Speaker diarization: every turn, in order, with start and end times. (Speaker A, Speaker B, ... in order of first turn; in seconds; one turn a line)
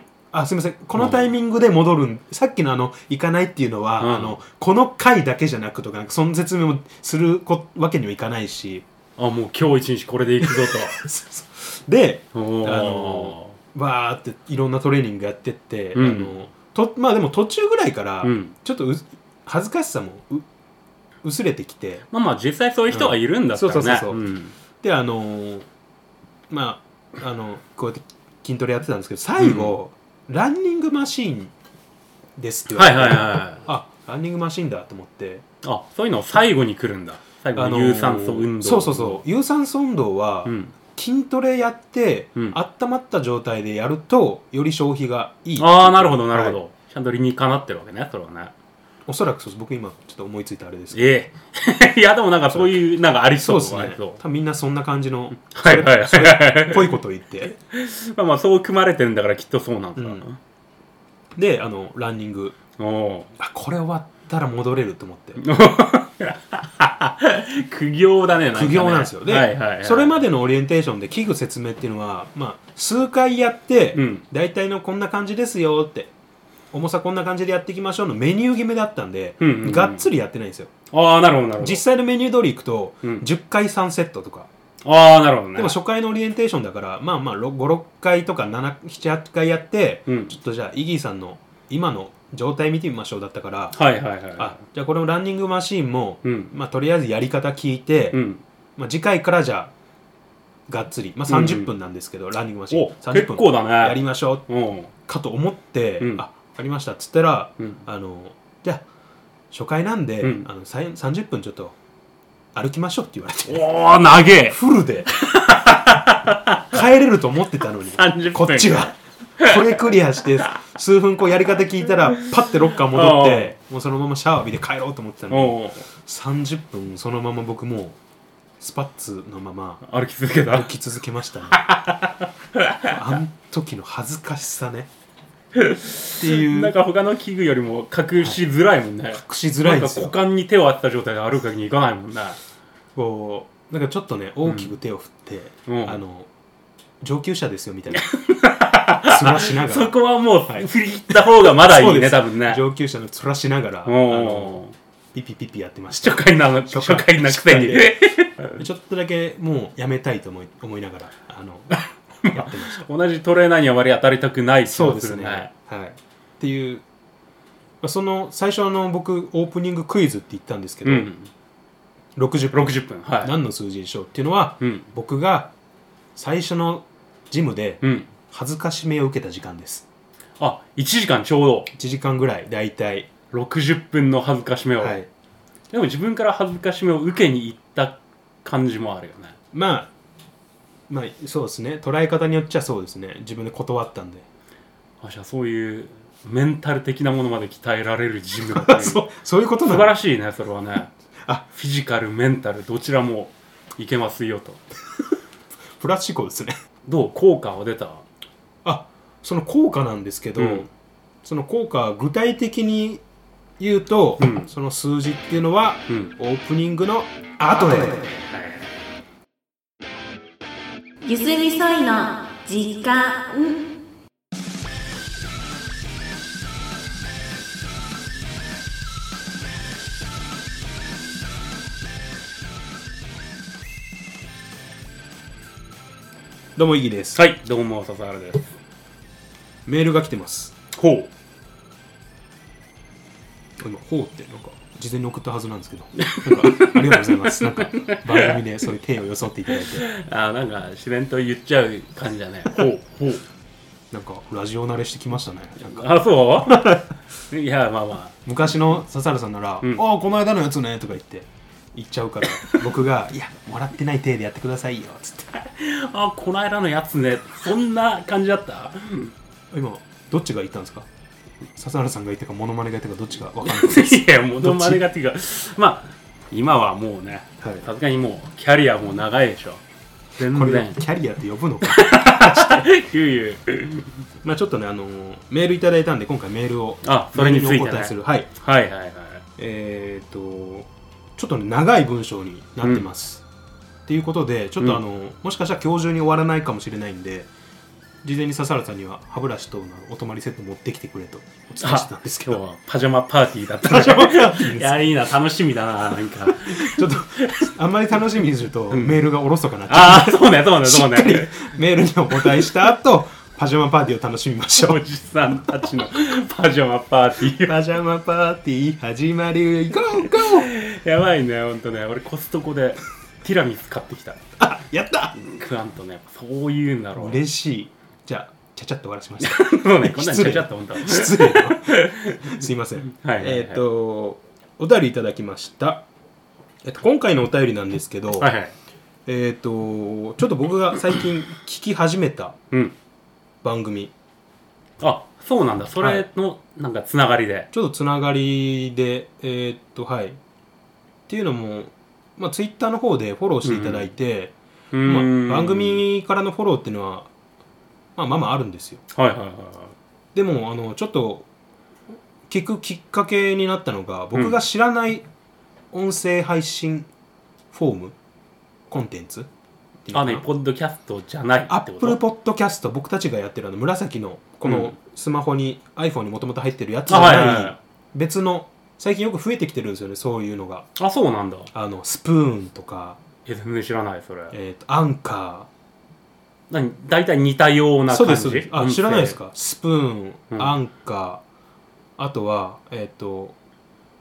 Speaker A: 0.3-8.8
Speaker B: 1.0-1.3
Speaker B: 4.0-4.4
Speaker B: 9.2-11.0
Speaker A: 10.4-20.5
Speaker B: 12.3-13.6
Speaker B: 15.9-16.3
Speaker B: 18.2-18.5
Speaker A: 21.2-22.1
Speaker B: 22.1-24.6
Speaker A: 22.9-24.2
Speaker A: 24.8-25.7
Speaker A: 26.5-31.5
Speaker B: 29.4-29.7
Speaker A: 32.4-35.4
Speaker B: 32.7-33.7
Speaker B: 35.6-39.2
Speaker A: 37.6-46.6
Speaker B: 40.5-40.7
Speaker B: 45.6-48.5
Speaker A: 49.1-51.1
Speaker B: 50.9-54.2
Speaker A: 52.5-52.8
Speaker A: 53.3-57.6
Speaker B: 55.5-57.0
Speaker B: 57.7-60.4
Speaker A: 60.0-60.2
Speaker A: 61.4-62.6
Speaker B: 62.8-63.3
Speaker A: 63.4-65.4
Speaker B: 65.4-70.2
Speaker A: 68.5-76.1
Speaker B: 74.0-74.2
Speaker A: 76.7-80.7
Speaker B: 79.4-80.1
Speaker B: 80.9-81.8
Speaker A: 81.6-84.5
Speaker B: 84.8-85.8
Speaker A: 85.6-93.8
Speaker B: 90.1-90.3
Speaker B: 93.7-94.6
Speaker A: 94.4-98.2
Speaker B: 96.2-96.5
Speaker B: 98.1-98.4
Speaker A: 98.8-99.7
Speaker A: 100.7-104.5
Speaker B: 101.3-101.7
Speaker B: 102.7-104.9
Speaker A: 105.0-108.8
Speaker A: 109.5-111.8
Speaker B: 110.2-110.5
Speaker A: 112.5-113.7
Speaker B: 113.5-114.6
Speaker A: 114.5-115.1
Speaker B: 115.1-116.7
Speaker A: 116.7-128.0
Speaker B: 118.0-120.6
Speaker B: 122.8-123.5
Speaker B: 125.3-125.9
Speaker A: 128.6-129.8
Speaker B: 129.8-130.7
Speaker A: 130.5-131.7
Speaker B: 131.5-133.0
Speaker A: 132.8-134.9
Speaker B: 135.6-142.4
Speaker A: 136.2-136.8
Speaker A: 139.1-140.2
Speaker A: 143.0-146.3
Speaker B: 144.5-144.7
Speaker B: 145.7-146.0
Speaker A: 147.0-148.1
Speaker B: 147.9-152.6
Speaker A: 149.1-149.9
Speaker A: 150.5-154.6
Speaker B: 153.9-154.7
Speaker A: 155.1-158.0
Speaker B: 156.0-158.6
Speaker A: 158.5-161.8
Speaker B: 161.7-165.5
Speaker A: 162.3-162.8
Speaker A: 164.7-166.8
Speaker A: 167.8-171.1
Speaker B: 170.8-171.3
Speaker A: 172.2-175.5
Speaker B: 172.5-173.3
Speaker B: 174.6-174.9
Speaker A: 176.2-179.8
Speaker B: 177.8-178.1
Speaker B: 180.4-181.7
Speaker A: 181.7-183.1
Speaker B: 183.3-185.0
Speaker A: 184.8-185.1
Speaker B: 185.7-189.4
Speaker A: 189.5-189.9
Speaker A: 190.9-194.3
Speaker B: 195.0-199.0
Speaker A: 198.5-200.0
Speaker B: 199.6-200.9
Speaker B: 201.5-204.6
Speaker A: 205.8-206.6
Speaker B: 206.9-208.0
Speaker A: 208.6-210.7
Speaker B: 210.4-210.7
Speaker A: 211.2-213.0
Speaker A: 213.6-218.1
Speaker B: 214.2-214.5
Speaker B: 218.3-218.6
Speaker C: 221.0-223.8
Speaker A: 236.6-237.2
Speaker B: 237.2-238.6
Speaker A: 239.7-240.6
Speaker B: 240.7-241.1
Speaker A: 243.6-249.9
Speaker B: 246.0-248.4
Speaker B: 249.7-253.2
Speaker A: 253.9-255.9
Speaker B: 255.6-258.2
Speaker A: 256.5-256.8
Speaker A: 258.2-265.3
Speaker B: 265.4-269.1
Speaker A: 269.5-270.9
Speaker A: 271.6-274.8
Speaker B: 273.4-279.6
Speaker A: 277.4-277.7
Speaker B: 280.2-280.8
Speaker A: 280.3-282.7
Speaker B: 281.6-283.9
Speaker A: 284.2-288.3
Speaker B: 286.9-289.2
Speaker A: 289.4-293.2
Speaker B: 292.6-292.9
Speaker A: 293.9-297.3
Speaker A: 298.0-302.4
Speaker B: 301.6-307.5
Speaker A: 303.6-304.9
Speaker A: 306.2-314.8
Speaker B: 308.7-309.1
Speaker B: 309.7-311.5
Speaker B: 314.6-317.6
Speaker A: 317.4-320.5
Speaker B: 320.2-324.2
Speaker A: 324.4-325.2
Speaker B: 325.1-327.2
Speaker A: 327.0-335.9
Speaker B: 329.2-332.3
Speaker B: 332.9-333.6
Speaker A: 336.6-338.3
Speaker B: 338.2-338.6
Speaker A: 339.1-342.4
Speaker A: 343.4-343.9
Speaker B: 344.8-347.5
Speaker A: 345.8-346.1
Speaker A: 347.5-350.2
Speaker A: 351.1-357.1
Speaker B: 353.4-353.9
Speaker B: 354.7-355.8
Speaker A: 358.0-358.8
Speaker B: 358.9-359.8
Speaker A: 360.1-361.3
Speaker A: 362.3-365.1
Speaker B: 364.1-364.4
Speaker A: 365.7-366.9
Speaker A: 367.5-367.9
Speaker A: 368.7-369.3
Speaker A: 369.9-370.3
Speaker B: 369.9-372.0
Speaker A: 371.5-380.7
Speaker B: 374.4-374.7
Speaker B: 376.9-377.6
Speaker B: 380.8-381.5
Speaker A: 381.5-383.0
Speaker B: 383.3-384.4
Speaker A: 384.3-385.5
Speaker B: 386.5-389.2
Speaker A: 387.9-391.2
Speaker A: 392.0-393.4